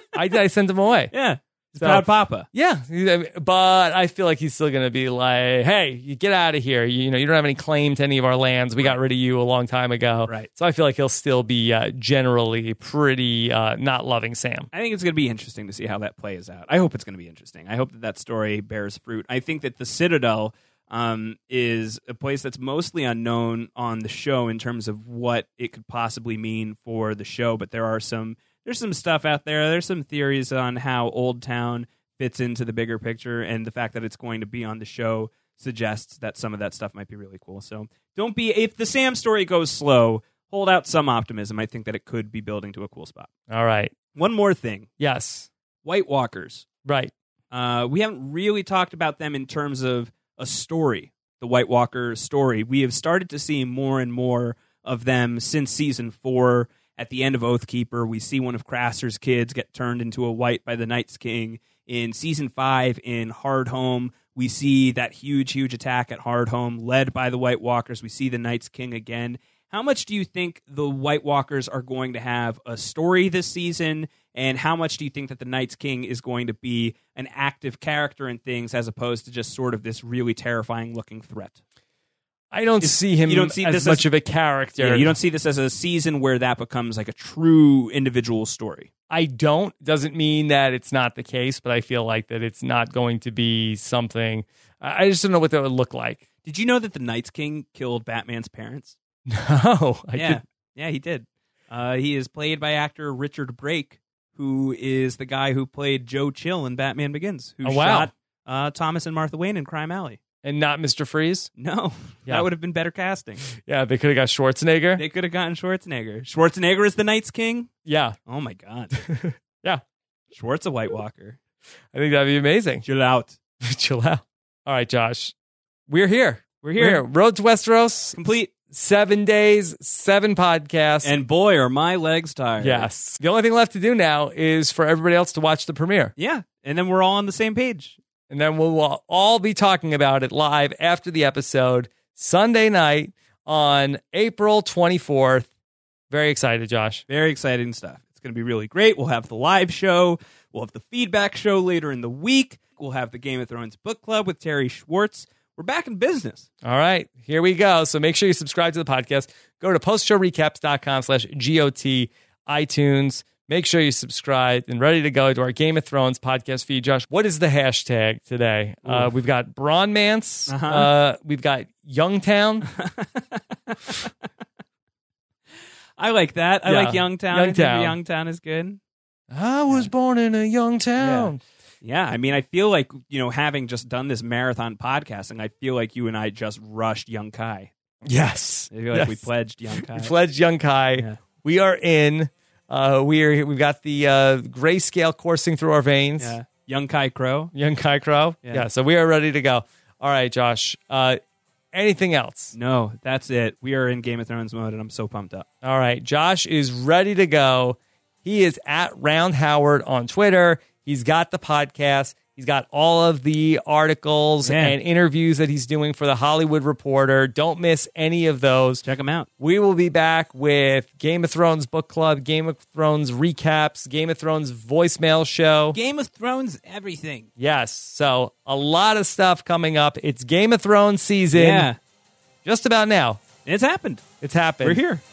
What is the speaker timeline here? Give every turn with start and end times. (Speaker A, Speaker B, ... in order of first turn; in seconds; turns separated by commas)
Speaker A: 0.1-1.1, Speaker B: 1.1-2.5, Speaker A: 1.8-14.7, Speaker B: 14.7-43.3, Speaker A: 43.5-43.9, Speaker B: 44.1-44.9, Speaker A: 45.0-45.5, Speaker B: 45.8-46.6, Speaker A: 46.8-47.1, Speaker B: 47.5-81.6, Speaker A: 82.5-85.1, Speaker B: 82.8-84.0, Speaker B: 84.8-88.9, Speaker A: 89.1-96.2, Speaker B: 96.4-99.0, Speaker A: 99.3-100.4, Speaker B: 100.1-110.2, Speaker A: 107.6-108.1, Speaker A: 110.4-111.5, Speaker B: 111.6-113.5, Speaker A: 113.5-115.0, Speaker B: 115.0-117.7, Speaker A: 117.8-118.1, Speaker B: 118.2-118.9, Speaker A: 118.9-119.8, Speaker B: 120.3-121.4, Speaker A: 121.9-122.8, Speaker B: 122.8-123.4, Speaker A: 123.6-125.3, Speaker A: 125.9-128.2, Speaker B: 126.6-127.0, Speaker B: 128.1-128.5, Speaker A: 128.7-131.1, Speaker B: 131.0-132.9, Speaker A: 132.6-136.1, Speaker B: 136.2-138.0, Speaker A: 138.3-145.5, Speaker A: 146.1-147.0, Speaker B: 147.1-156.5, Speaker A: 156.6-172.7, Speaker B: 168.8-169.1, Speaker B: 170.5-170.9, Speaker B: 172.7-174.1, Speaker B: 176.0-178.8, Speaker A: 176.6-177.9, Speaker A: 179.3-181.4, Speaker B: 181.0-187.7, Speaker A: 188.0-196.3, Speaker B: 188.7-190.1, Speaker B: 190.9-191.2, Speaker B: 196.2-197.5, Speaker A: 197.5-201.2, Speaker A: 201.7-202.5, Speaker B: 202.5-205.4, Speaker A: 205.6-218.8, Speaker B: 214.4-214.8, Speaker B: 218.8-219.3, Speaker A: 219.4-225.8, Speaker B: 225.7-227.3, Speaker A: 227.4-231.7, Speaker B: 231.3-231.8, Speaker A: 232.4-233.2, Speaker B: 233.4-234.0, Speaker A: 234.2-234.8, Speaker B: 234.6-235.0